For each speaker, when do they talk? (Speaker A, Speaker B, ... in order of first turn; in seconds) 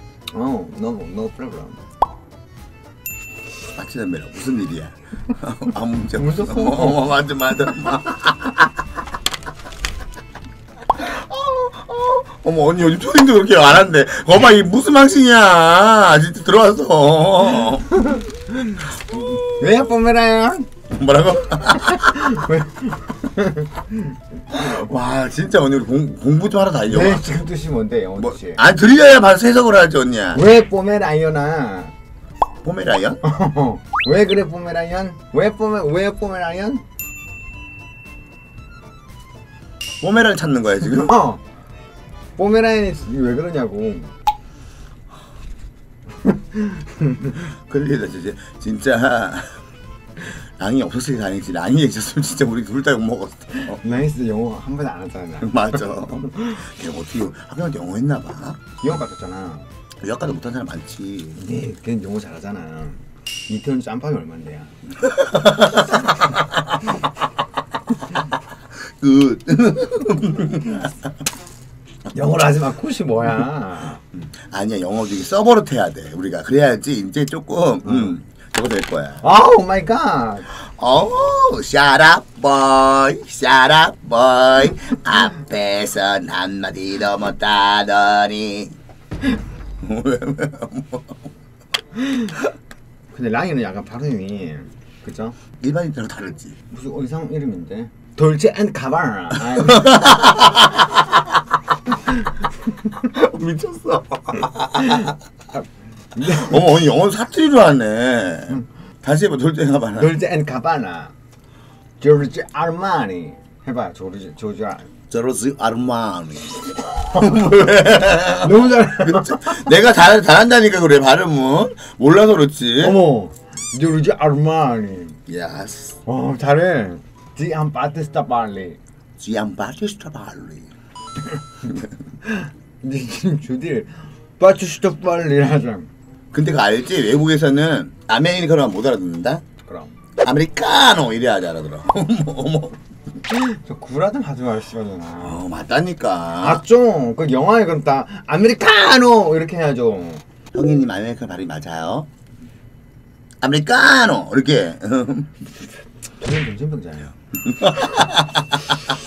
Speaker A: 0.3-1.8, 6.2-7.0, 18.0-20.7, 21.9-24.1, 26.9-28.6, 30.3-31.9, 33.2-36.8, 41.0-41.4, 42.4-44.1, 46.5-47.3, 53.6-55.6, 58.8-59.6, 61.4-64.7, 72.1-74.0, 77.8-78.1, 79.2-80.5, 93.1-95.4, 96.7-100.3, 106.2-106.5, 110.0-111.1, 112.0-114.9, 118.4-119.6, 122.8-125.2, 126.0-128.8, 132.2-135.9, 139.6-139.9, 143.3-145.4, 146.4-150.2, 156.2-157.1
Speaker B: 3.7-8.7, 10.9-18.0, 19.1-19.4, 20.9-22.4, 24.5-27.3, 28.2-30.4, 32.6-33.2, 40.0-41.1, 47.5-49.6, 50.2-53.8, 55.4-58.7, 60.0-61.4, 65.1-66.3, 68.8-71.0, 74.4-79.2, 80.5-88.8, 89.8-91.2, 95.6-96.5, 99.6-100.7, 103.0-105.0, 106.2-110.2, 115.1-123.0, 125.3-126.0, 129.2-130.7, 136.3-139.4, 140.2-142.8, 145.2-146.6, 150.5-152.1, 153.4-155.4, 157.5-158.4